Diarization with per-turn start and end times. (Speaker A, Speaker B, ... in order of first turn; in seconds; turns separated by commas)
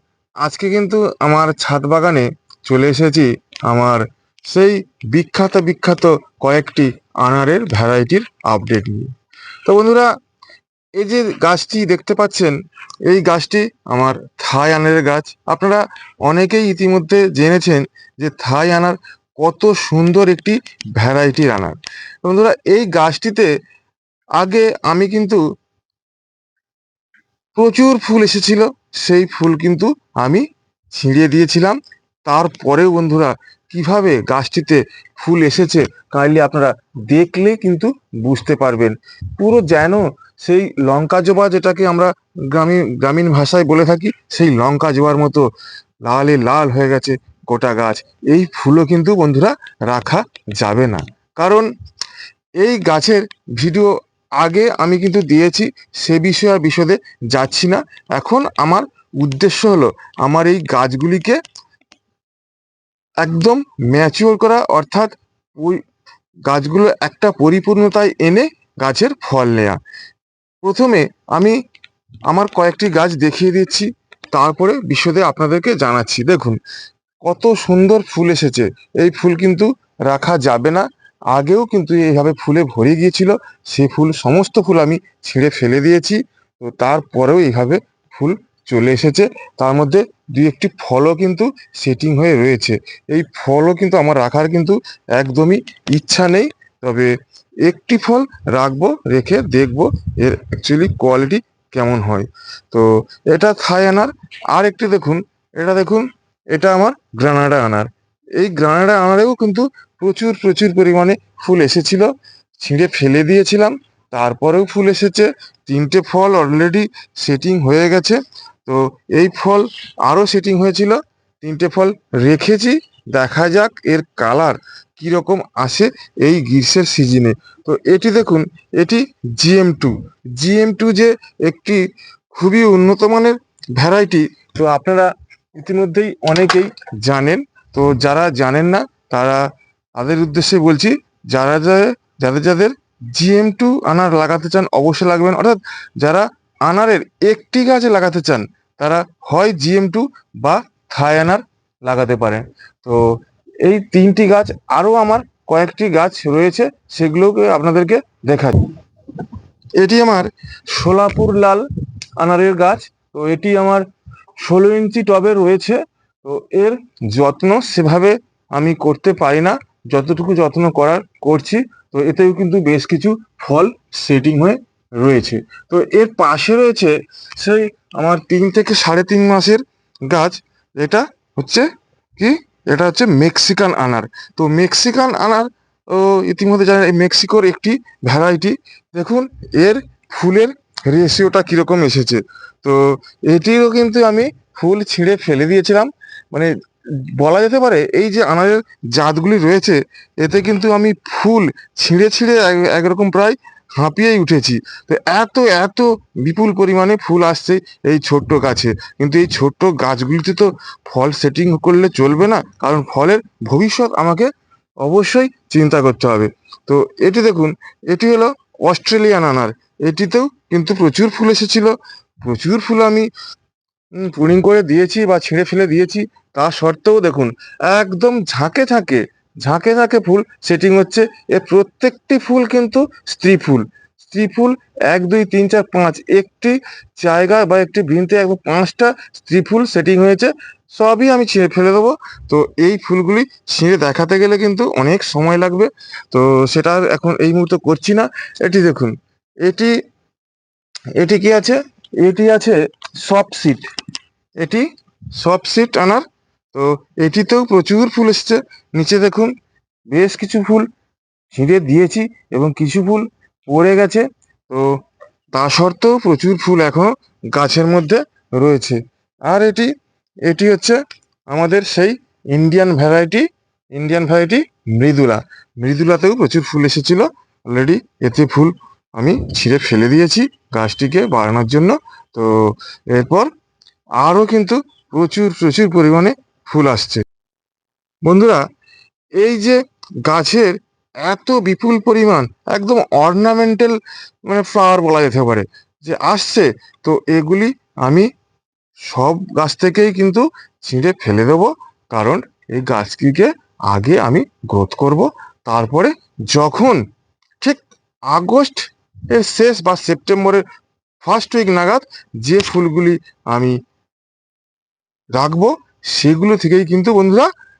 Speaker A: 0.4-9.1, Speaker A: 9.6-10.1, Speaker A: 10.9-23.5, Speaker A: 24.4-25.4, Speaker A: 27.5-45.5, Speaker A: 46.0-51.7, Speaker A: 52.6-61.4, Speaker A: 63.2-65.8, Speaker A: 66.5-69.8, Speaker A: 70.6-71.6, Speaker A: 72.3-76.6, Speaker A: 77.2-139.4, Speaker A: 140.0-158.7, Speaker A: 159.8-161.7, Speaker A: 162.2-163.8, Speaker A: 164.4-196.5, Speaker A: 197.1-214.3, Speaker A: 214.8-223.1, Speaker A: 223.9-249.7, Speaker A: 251.0-253.7, Speaker A: 254.4-254.6, Speaker A: 255.2-259.3, Speaker A: 259.9-260.7, Speaker A: 261.3-264.7, Speaker A: 265.3-269.7, Speaker A: 270.2-283.3, Speaker A: 284.0-287.0, Speaker A: 288.0-288.4, Speaker A: 289.2-298.1, Speaker A: 298.9-306.8, Speaker A: 307.4-310.4, Speaker A: 311.0-313.5, Speaker A: 315.1-317.3